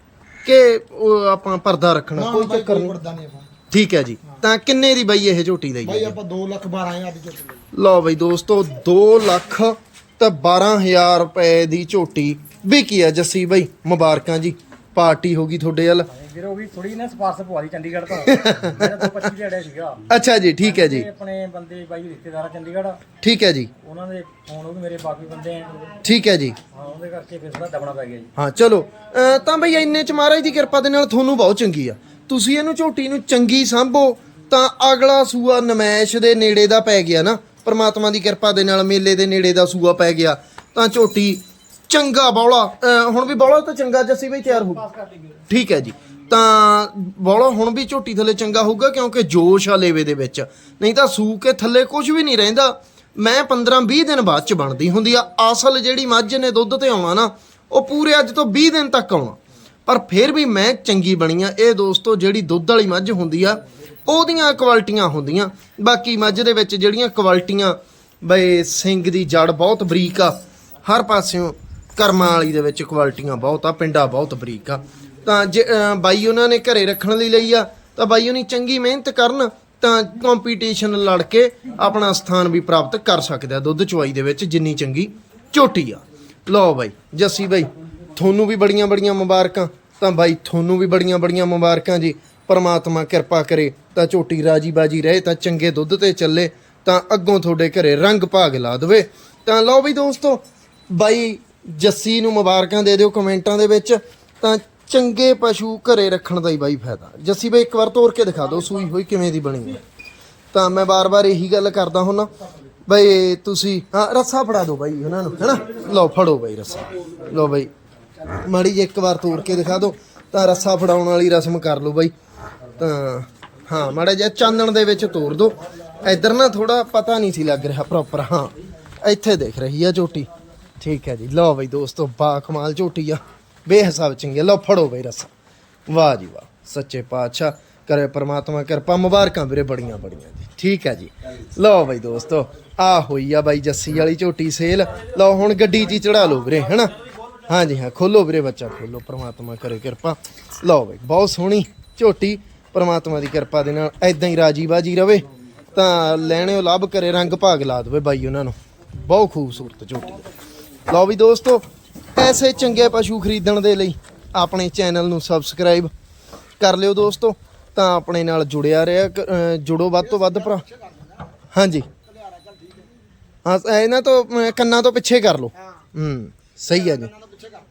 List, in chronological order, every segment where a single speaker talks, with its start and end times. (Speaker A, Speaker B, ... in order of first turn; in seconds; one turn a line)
Speaker A: 0.5-2.9
Speaker B: 2.2-3.5
Speaker A: 3.7-6.2
Speaker B: 5.8-7.7
Speaker A: 7.7-16.1
Speaker C: 16.1-20.1
Speaker A: 18.2-19.0
Speaker A: 20.1-21.1
Speaker C: 20.6-23.0
Speaker A: 23.2-23.7
Speaker C: 23.8-26.0
Speaker A: 26.0-26.6
Speaker C: 26.7-28.3
Speaker A: 28.4-44.9
Speaker A: 45.5-109.8
Speaker A: 110.5-112.3
Speaker A: 112.9-117.7
Speaker A: 118.3-122.1
Speaker A: 122.8-130.3
Speaker A: 130.8-135.3
Speaker A: 135.9-146.9
Speaker A: 147.4-160.3
Speaker A: 160.9-161.6
Speaker A: 162.2-165.9
Speaker A: 166.6-170.6
Speaker B: 170.2-171.1
Speaker A: 171.5-171.9
Speaker B: 172.1-172.8
Speaker A: 173.4-177.1
Speaker B: 177.2-177.5